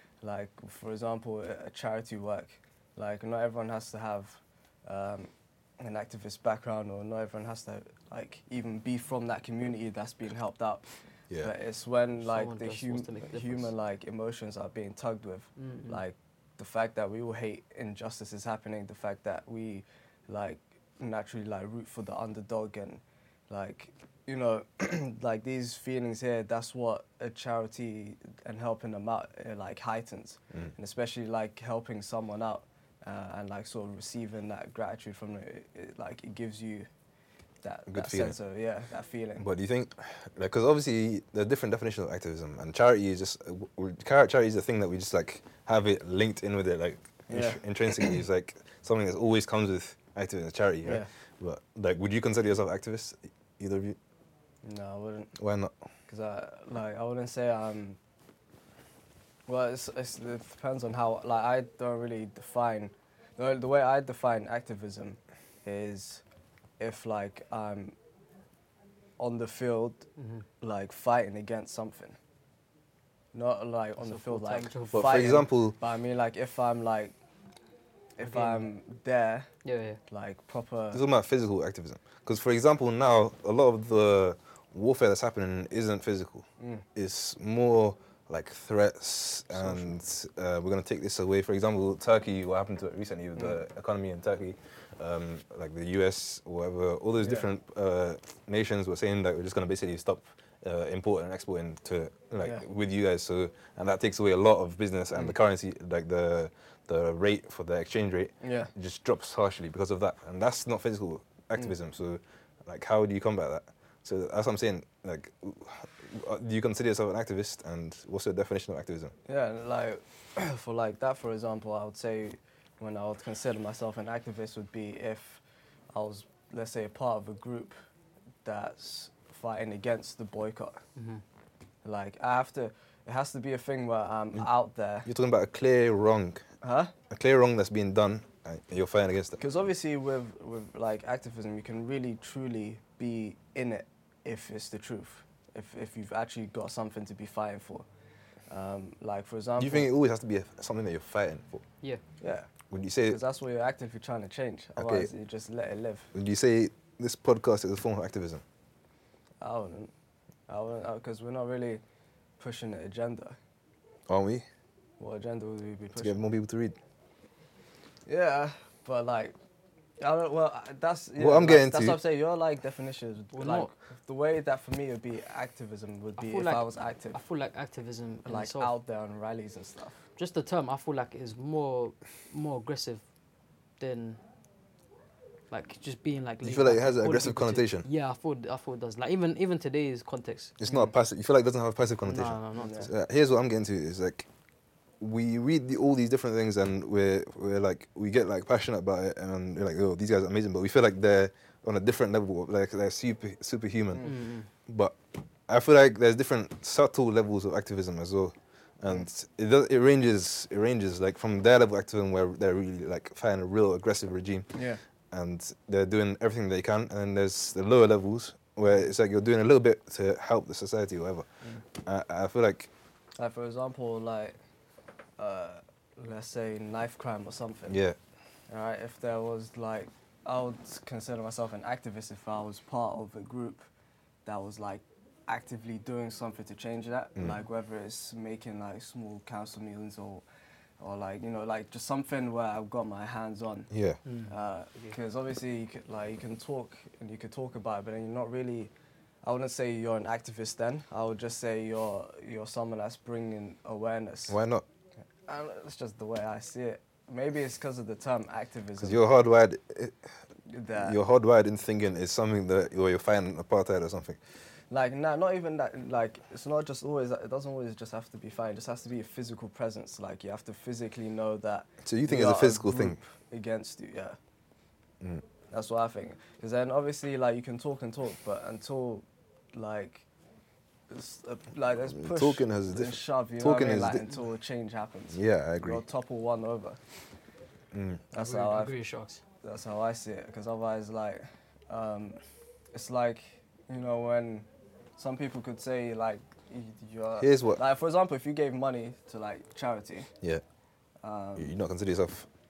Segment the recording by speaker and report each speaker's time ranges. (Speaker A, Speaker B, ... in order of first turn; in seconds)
Speaker A: 0.2-10.8, 11.4-36.9, 37.6-39.5, 47.3-47.6, 50.8-51.1, 54.6-55.3, 56.1-58.0, 59.5-66.2, 66.8-68.0, 69.2-70.1, 70.6-72.2, 73.3-77.2, 78.2-79.5, 80.1-81.0, 86.6-86.8, 89.5-89.9, 97.2-97.5, 108.4-108.7, 119.3-125.4, 125.9-127.8, 128.4-130.8, 131.8-135.1, 136.6-136.9, 139.4-147.9, 148.5-149.9, 152.2-152.5, 153.1-156.1, 159.4-159.9, 160.5-161.8, 162.4-163.4, 165.0-166.2, 168.1-169.4, 170.0-177.2, 178.2-180.0, 190.7-190.9, 192.6-192.9, 214.5-214.8, 223.2-224.4, 225.2-227.8, 228.5-233.7, 234.2-240.2, 240.8-243.7, 244.3-248.7, 249.2-254.4, 255.3-259.0, 260.5-261.0, 264.7-274.2, 275.5-280.1, 280.9-286.8, 288.1-288.7, 289.4-292.2, 292.7-300.1, 301.0-301.5
Speaker B: 12.2-13.7, 15.6-16.0, 70.2-70.5, 74.0-75.3, 78.2-78.7, 79.6-80.0, 130.9-131.2, 173.3-173.7, 176.2-178.7, 180.2-183.0, 183.8-184.2, 185.5-190.6, 192.1-192.8, 204.0-204.5, 244.1-244.9, 288.2-289.2
Speaker C: 37.9-38.4, 39.4-54.0, 55.4-55.7, 74.9-75.8, 80.9-119.1, 135.1-136.4, 137.1-139.4, 149.6-151.6, 152.7-153.2, 154.8-155.1, 156.1-158.4, 164.1-164.4, 166.0-166.8, 171.2-172.0, 186.4-187.9, 190.6-194.3, 195.0-204.1, 204.7-205.0, 205.5-214.6, 215.1-222.7, 227.7-228.0, 243.7-244.0, 254.3-254.6, 258.8-260.1, 260.8-264.2, 271.8-273.0, 281.9-284.0, 285.1-285.8, 287.7-288.0, 297.2-297.6, 301.4-302.3